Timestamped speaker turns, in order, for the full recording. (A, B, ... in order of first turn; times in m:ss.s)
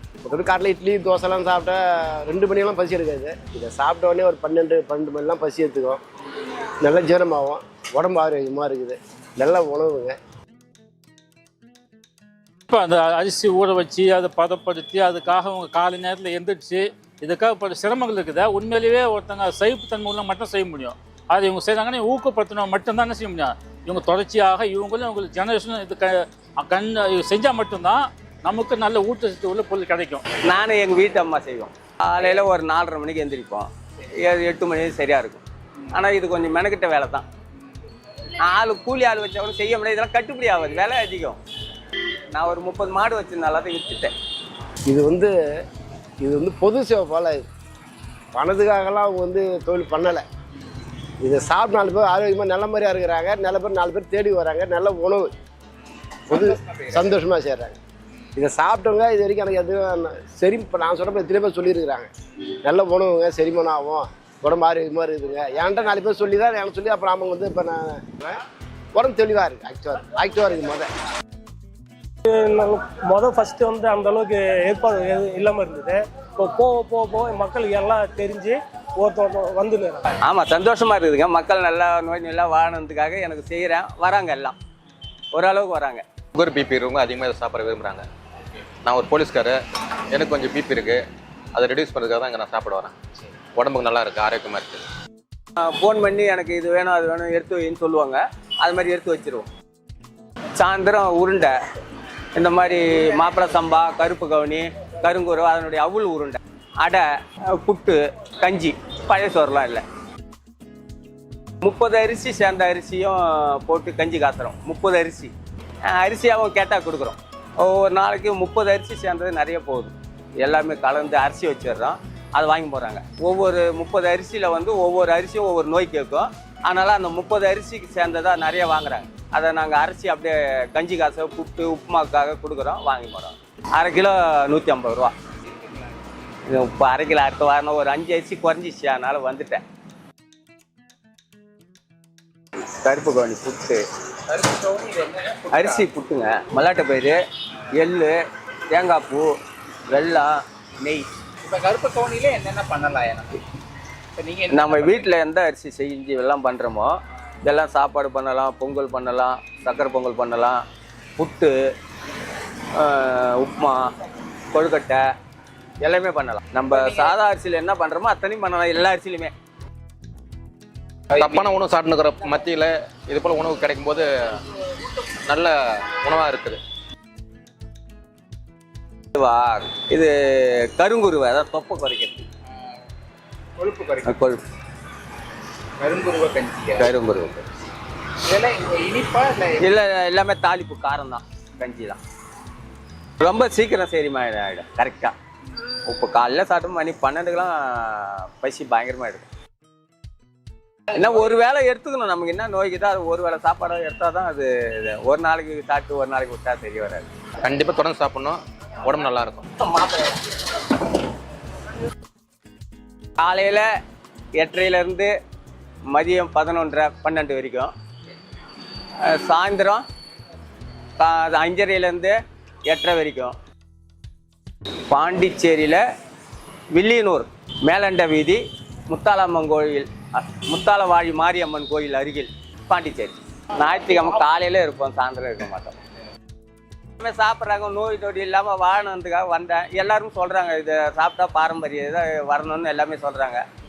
0:00.2-0:06.0 A
0:06.8-0:10.2 A
0:12.7-0:30.2 B
0:30.5-0:33.7 C
0:34.2-0:37.2 C
0:38.4-0:41.4 C
0:42.3-0:44.1 C
0:44.9-0:45.3 A
0:46.2-0:47.4 A
0:48.3-0:50.2 A
0:51.2-0:55.3 A
0:56.3-0:57.8 A
0:58.4-1:02.1 A
1:02.6-1:08.4 A
1:08.9-1:10.9 A
1:12.2-1:20.1 D
1:20.2-1:24.6 C
1:25.3-1:26.0 C
1:26.3-1:28.0 E
1:28.8-1:29.6 E
1:30.1-1:31.0 E
1:31.5-1:32.9 E
1:33.6-1:34.8 E
1:35.6-1:39.5 C
1:40.6-1:41.6 C
1:42.4-1:47.0 C
1:47.6-1:49.8 C
1:51.6-1:55.3 C
1:55.9-2:15.1 C
2:16.5-2:19.6 C
2:22.8-2:23.8 C
2:24.3-2:25.7 F
2:25.5-2:27.2 C
2:27.8-2:28.2 C
2:28.7-2:29.3 C
2:29.9-2:30.3 C
2:31.5-2:33.4 F
2:34.2-2:34.6 F
2:34.5-2:40.6 C
2:41.2-2:41.5 C
2:42.8-2:43.9 C
2:44.5-2:45.0 C
2:45.8-2:49.3 C
2:51.2-2:54.1 E
2:55.3-2:56.6 E
2:59.1-3:02.2 C
3:03.6-3:04.0 F
3:04.0-3:04.4 C
3:05.8-3:06.8 F
3:06.8-3:07.4 C
3:08.3-3:09.5 F
3:09.6-3:12.0 C
3:13.2-3:15.1 C
3:15.8-3:19.2 C
3:20.9-3:27.1 C
3:27.4-3:29.4 E
3:33.2-3:33.7 C
3:34.4-3:35.1 C
3:35.9-3:37.7 C
3:39.1-3:39.8 C
3:41.0-3:42.1 C
3:42.7-3:43.3 C
3:44.9-3:45.8 C
3:46.7-3:55.8 C
3:57.0-4:03.4 C